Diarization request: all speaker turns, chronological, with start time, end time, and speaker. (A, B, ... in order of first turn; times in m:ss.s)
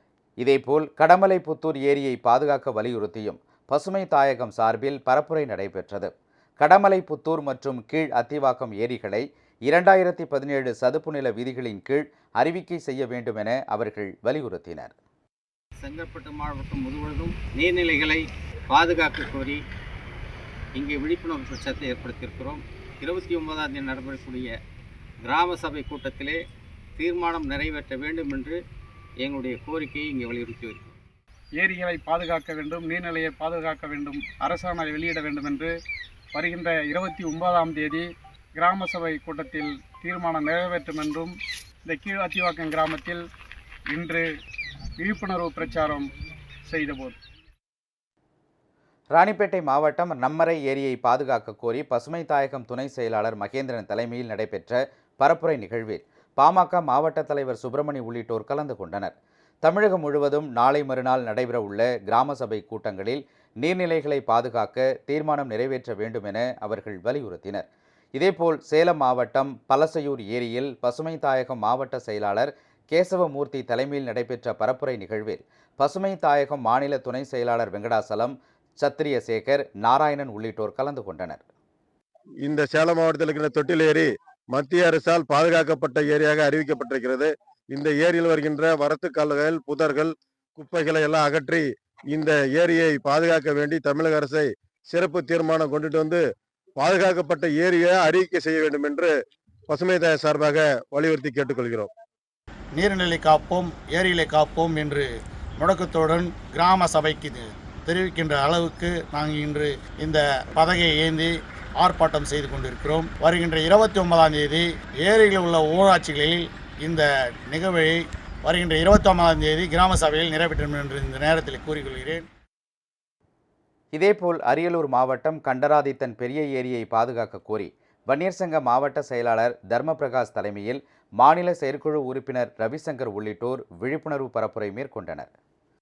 0:00.4-0:14.9 A
0:15.8-0:19.6 B
0:20.8-0:24.5 B
0:25.2-0:26.4 B
0:27.0-0:28.6 B
0:29.2-0:30.9 B
0:31.6-0:35.7 C
0:36.3-0:41.3 C
0:41.9-0:43.2 C
0:43.9-0:44.3 C
0:45.0-0:46.1 C
0:46.7-0:47.2 C
0:49.1-1:21.4 A
1:22.4-1:36.2 D
1:36.8-1:39.1 D
1:39.7-1:41.9 D
1:42.8-1:45.1 E
1:45.6-2:02.2 E
2:03.9-2:15.3 A